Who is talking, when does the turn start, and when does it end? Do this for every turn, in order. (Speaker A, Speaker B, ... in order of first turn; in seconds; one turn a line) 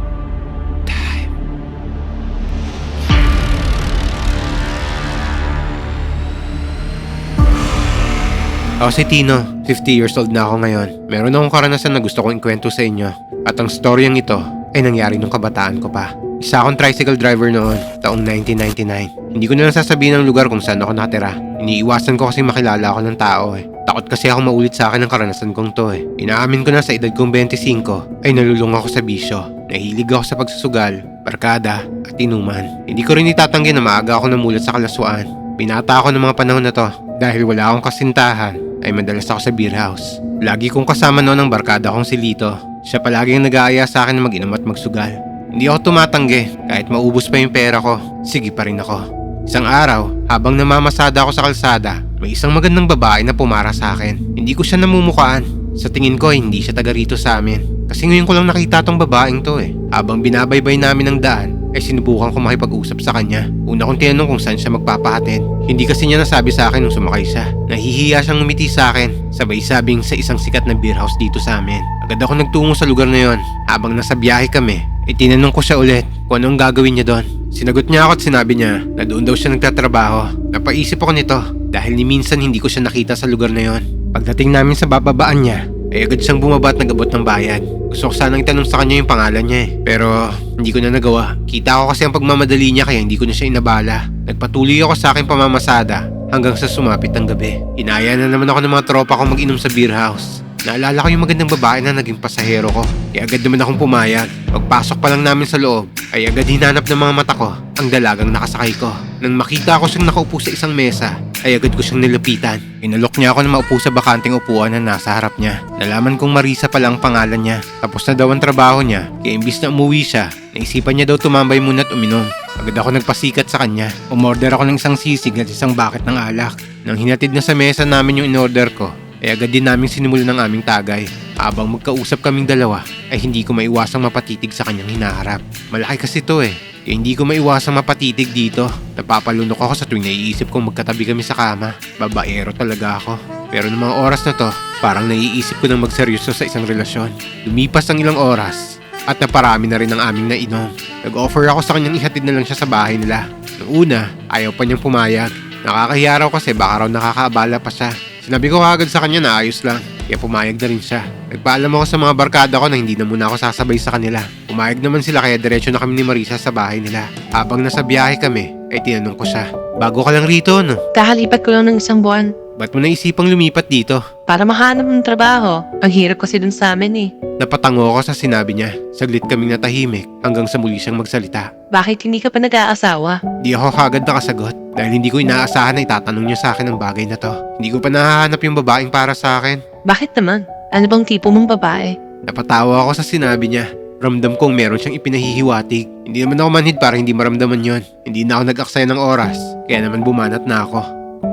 Speaker A: 0.9-1.3
Speaker A: 8.8-170.8
Speaker B: 170.9-172.3
Speaker A: 172.6-174.0
Speaker B: 174.3-177.1
Speaker A: 177.4-181.5
Speaker B: 181.7-183.2
Speaker A: 183.4-189.6
Speaker B: 189.9-192.0
Speaker A: 192.3-200.9